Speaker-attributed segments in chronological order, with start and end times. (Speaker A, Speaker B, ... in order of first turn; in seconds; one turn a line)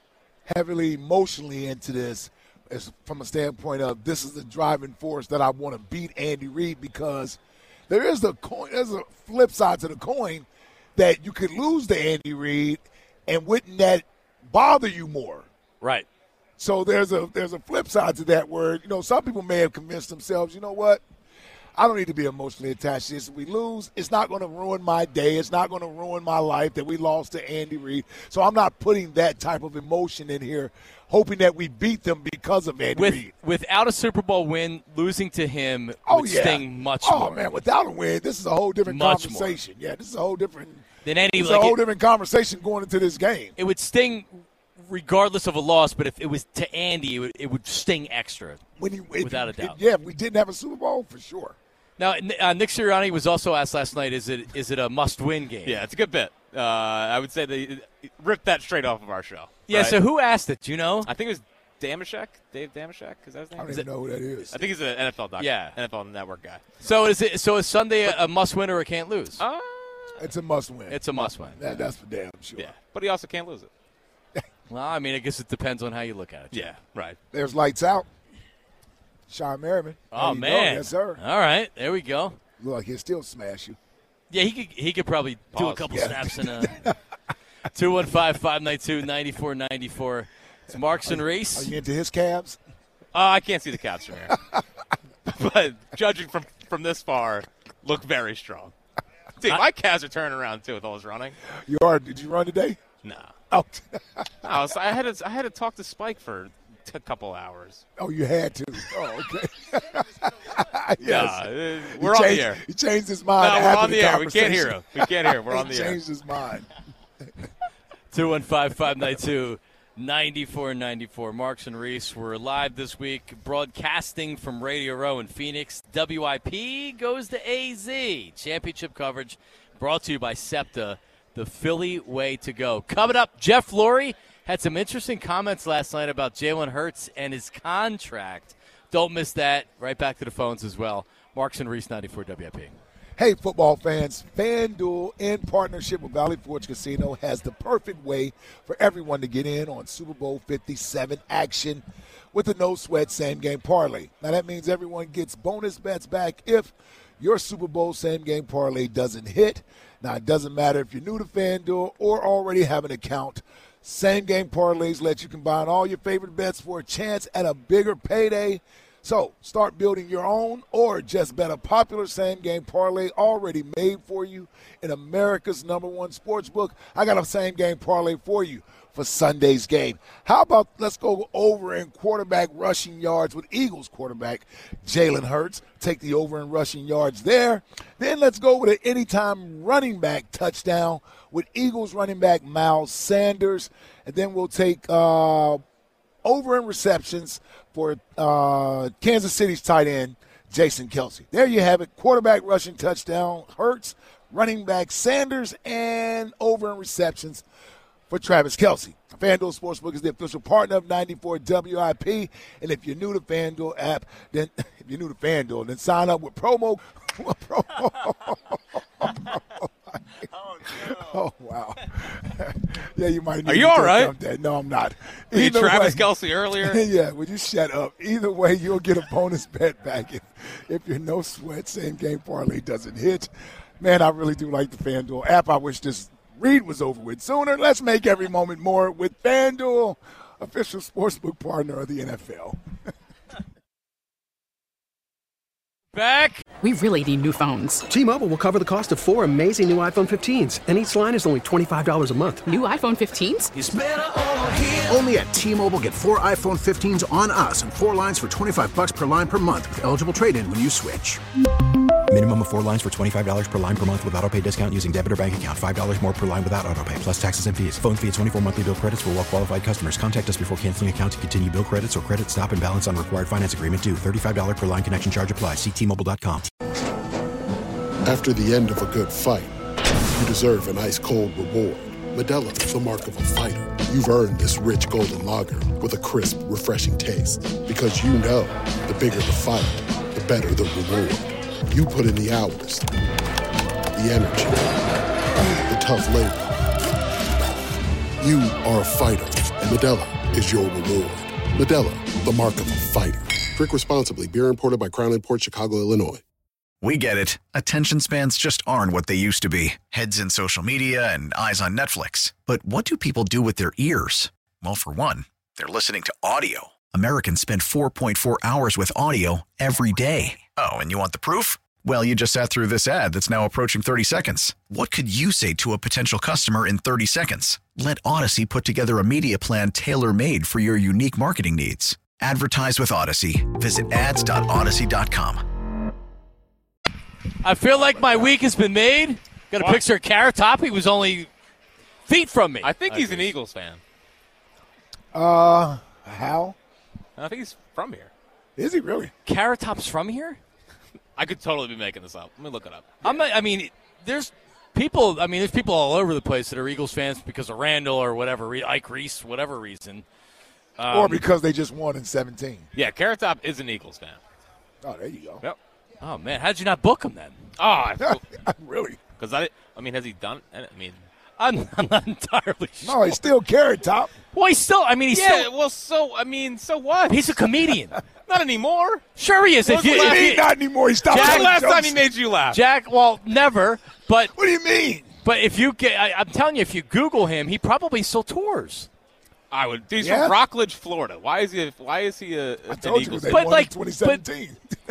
Speaker A: 0.5-15.5
Speaker B: 15.8-16.1
Speaker A: 16.6-21.0
Speaker A: 21.8-33.3
Speaker B: 33.0-37.4
Speaker A: 36.1-40.8
Speaker B: 38.9-39.6
Speaker B: 41.0-41.8
Speaker A: 41.4-43.5
Speaker B: 43.6-48.6
Speaker A: 48.8-51.6
Speaker B: 49.2-49.8
Speaker B: 52.0-55.8
Speaker C: 55.7-60.0
Speaker B: 59.7-61.1
Speaker C: 61.0-63.9
Speaker A: 63.6-64.5
Speaker C: 64.5-66.7
Speaker B: 65.4-65.8
Speaker B: 66.8-69.4
Speaker C: 69.4-70.3
Speaker A: 70.2-72.7
Speaker B: 70.9-71.8
Speaker C: 72.6-73.7
Speaker B: 74.7-76.8
Speaker C: 76.5-77.2
Speaker A: 77.3-78.1
Speaker A: 79.3-81.2
Speaker B: 80.1-82.4
Speaker A: 82.6-83.8
Speaker B: 84.3-86.7
Speaker C: 85.5-86.0
Speaker A: 85.9-87.0
Speaker B: 87.8-91.7
Speaker A: 91.1-92.6
Speaker C: 93.1-94.3
Speaker C: 95.3-98.7
Speaker C: 99.4-101.3
Speaker A: 101.7-102.8
Speaker C: 103.0-103.3
Speaker A: 103.5-104.5
Speaker C: 104.4-107.8
Speaker A: 108.0-116.7
Speaker C: 111.0-112.6
Speaker C: 113.4-116.0
Speaker B: 118.1-142.8
Speaker A: 143.2-195.6
Speaker A: 196.2-207.4
Speaker A: 208.1-220.0
Speaker A: 220.7-242.6
Speaker C: 223.4-224.1
Speaker C: 225.3-226.8
Speaker B: 245.9-246.4
Speaker D: 246.6-247.8
Speaker E: 247.9-252.4
Speaker D: 252.5-253.5
Speaker F: 254.7-261.2
Speaker G: 262.1-276.5
Speaker H: 278.0-279.6
Speaker H: 280.1-292.9
Speaker H: 293.9-294.8
Speaker H: 295.6-296.7
Speaker H: 298.2-306.2
Speaker I: 306.8-335.4
Speaker B: 337.4-341.3
Speaker B: 342.1-343.3
Speaker C: 342.6-343.8
Speaker A: 345.1-346.6
Speaker C: 347.2-348.1
Speaker A: 348.6-349.1
Speaker B: 349.3-350.4
Speaker C: 351.2-353.1
Speaker B: 353.0-360.1
Speaker B: 360.8-361.2
Speaker A: 360.9-362.7
Speaker C: 362.7-364.2
Speaker A: 364.8-365.4
Speaker B: 366.0-367.4
Speaker C: 367.6-368.2
Speaker A: 368.0-369.0
Speaker C: 369.2-371.0
Speaker B: 371.4-373.2
Speaker A: 372.8-374.1
Speaker B: 374.3-375.5
Speaker C: 375.1-377.4
Speaker B: 377.1-378.0
Speaker C: 378.3-379.0
Speaker B: 379.2-380.5
Speaker C: 379.6-380.4
Speaker A: 379.8-382.0
Speaker B: 381.1-381.7
Speaker C: 381.1-382.6
Speaker B: 382.5-384.3
Speaker A: 384.3-385.1
Speaker B: 385.2-388.9
Speaker C: 389.5-393.4
Speaker A: 390.0-390.4
Speaker A: 392.7-394.6
Speaker B: 393.3-394.2